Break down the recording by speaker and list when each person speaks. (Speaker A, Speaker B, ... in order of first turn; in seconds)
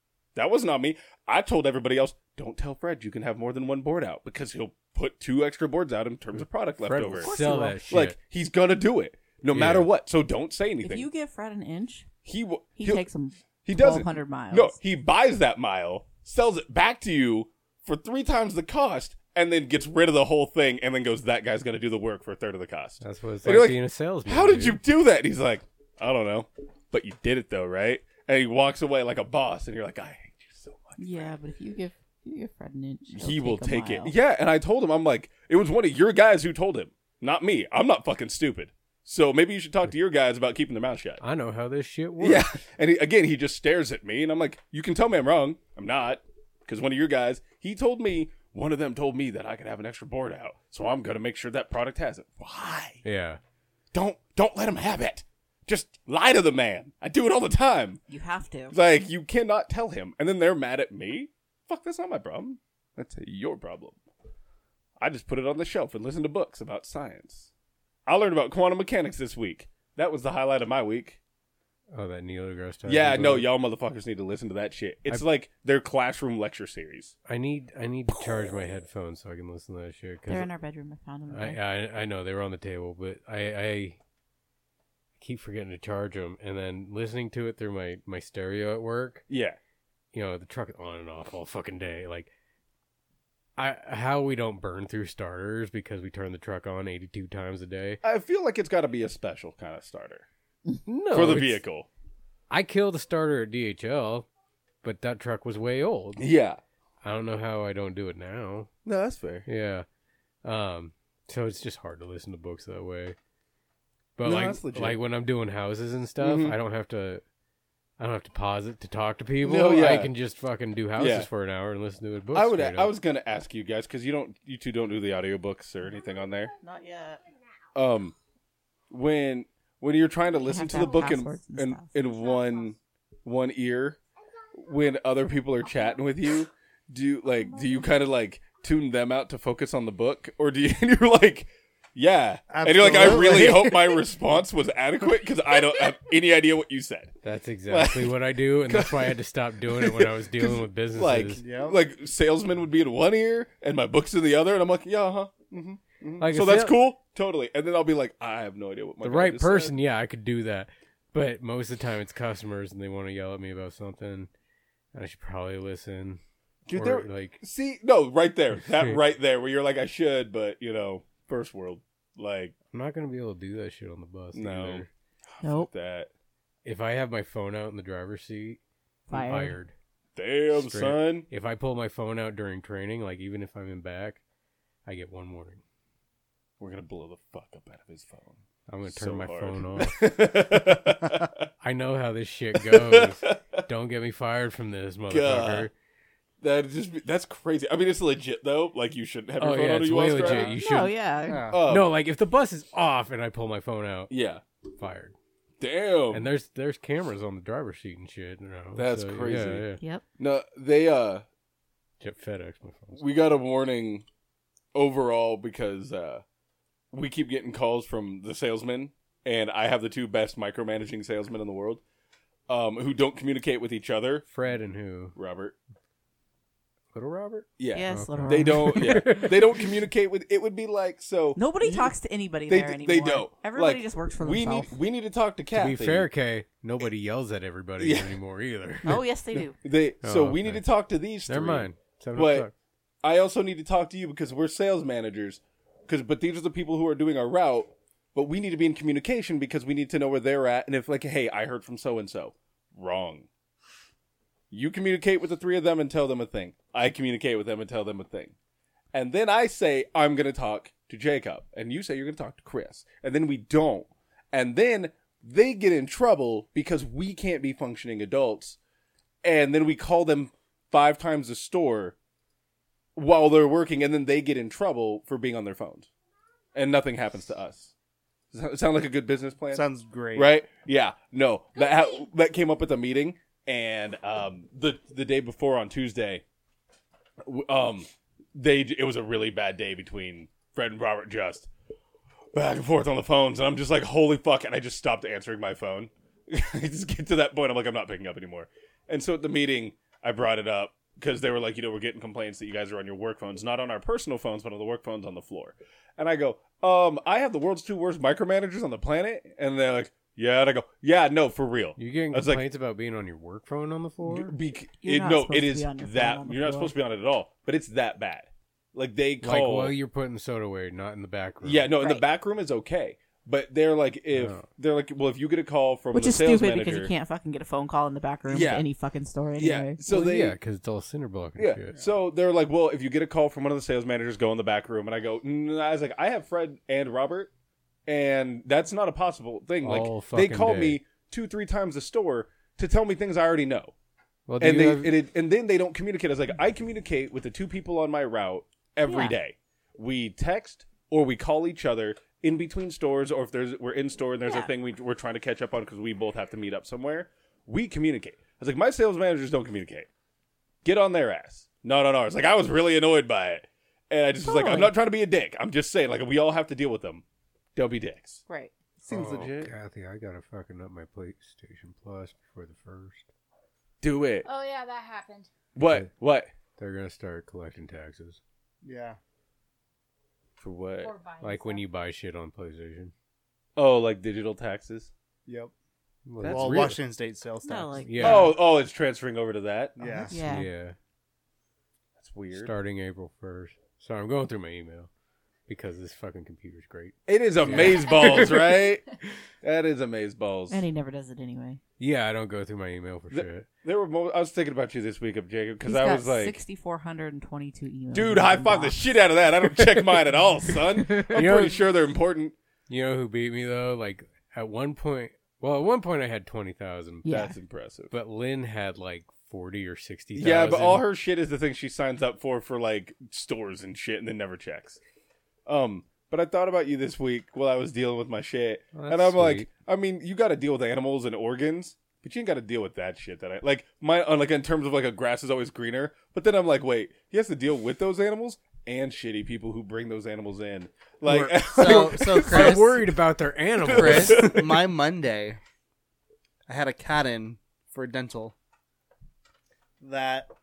Speaker A: 0.3-7.3, 7.9-11.1, 12.2-13.1, 13.6-31.4, 33.1-41.2, 42.2-53.0, 53.9-58.0, 58.7-64.0, 65.0-67.5, 68.1-71.2, 72.9-77.2, 89.3-89.6, 98.0-100.3, 101.1-101.9, 106.2-106.6, 108.8-109.5, 114.2-115.0, 116.2-116.6, 119.4-120.1, 121.0-121.3, 122.3-126.5, 127.7-128.2, 128.9-134.0, 134.6-147.2, 147.7-159.7, 166.7-172.5, 174.3-174.9, 175.4-176.1, 180.2-181.3, 186.6-191.5, 192.6-193.6, 195.1-195.7, 196.4-200.6, 201.5-201.9, 204.1-204.4, 205.6-206.3, 208.8-211.2, 212.9-214.1, 214.7-216.2, 216.9-221.8, 222.5-224.3, 225.2-225.6, 227.6-231.9, 232.5-236.1, 237.8-238.2, 239.3-242.5, 243.0-253.3, 254.5-258.3, 258.9-268.6, 269.2-271.9, 273.0-275.9, 276.5-277.7, 278.3-286.2, 287.2-291.5, 292.3-312.4, 314.1-319.8, 321.4-326.9, 328.3-328.7, 329.4-330.4, 331.4-337.3, 337.9-343.7, 344.4-359.9, 360.6-367.0, 367.6-368.2, 368.8-369.5, 373.8-374.3, 375.6-376.3, 380.4-380.9, 383.6-384.9, 386.2-386.8, 388.0-390.1, 392.0-392.5, 397.1-398.9, 399.4-400.7, 403.1-406.4, 407.9-412.3, 417.1-417.9, 420.1-424.8, 425.5-442.8, 443.6-444.5
Speaker B: 6.8-8.2, 9.5-9.9, 23.0-24.8, 41.2-42.5, 53.0-53.4, 71.9-73.5, 77.3-80.5, 81.3-84.0, 85.2-89.2, 90.1-92.3, 93.6-98.0, 100.9-101.6, 102.5-104.3, 104.8-106.3, 107.0-108.7, 109.5-109.9, 110.4-113.2, 114.2-117.2, 118.0-122.9, 147.2-151.4, 156.2-156.8, 159.0-164.3, 164.9-167.4, 172.7-174.9, 176.7-178.6, 179.1-179.7, 180.5-184.2, 184.9-185.6, 188.7-190.0, 191.6-195.7, 199.4-201.0, 201.7-204.1, 204.8-205.1, 206.1-209.8, 212.0-213.0, 224.3-225.2, 226.9-229.7, 235.6-239.0, 240.0-240.6, 241.3-242.5, 311.8-314.3, 319.2-321.7, 324.1-324.4, 329.9-331.8, 339.6-340.8, 344.3-344.9, 368.9-373.1, 376.6-378.2, 381.2-382.9, 386.1-386.8, 387.8-388.4, 390.1-390.8, 392.3-394.9, 395.5-398.6, 401.8-403.5, 410.5-411.6, 412.7-417.1, 417.9-420.9, 428.7-429.5, 441.6-444.4
Speaker C: 7.2-7.8, 10.8-12.1, 12.8-14.8, 31.0-34.1, 58.1-58.8, 80.3-81.6, 126.6-127.2, 130.4-131.9, 175.4-175.7, 179.1-179.6, 200.2-201.5, 227.7-229.1, 231.4-234.7, 238.8-239.6, 314.8-316.8, 321.8-322.1, 325.9-329.8, 348.9-349.1, 354.2-354.5, 364.2-364.7, 368.3-368.5, 387.4-388.4, 390.1-390.5, 400.5-401.6, 405.6-408.8, 417.0-417.4
Speaker D: 130.8-131.1, 374.2-375.3, 380.8-381.6
Speaker E: 142.5-144.1, 151.4-151.8, 201.3-201.6, 279.5-280.3, 378.6-379.0, 385.3-385.5, 386.3-388.2, 389.8-390.2, 441.0-442.8, 443.6-445.4, 446.5-448.4, 449.8-450.3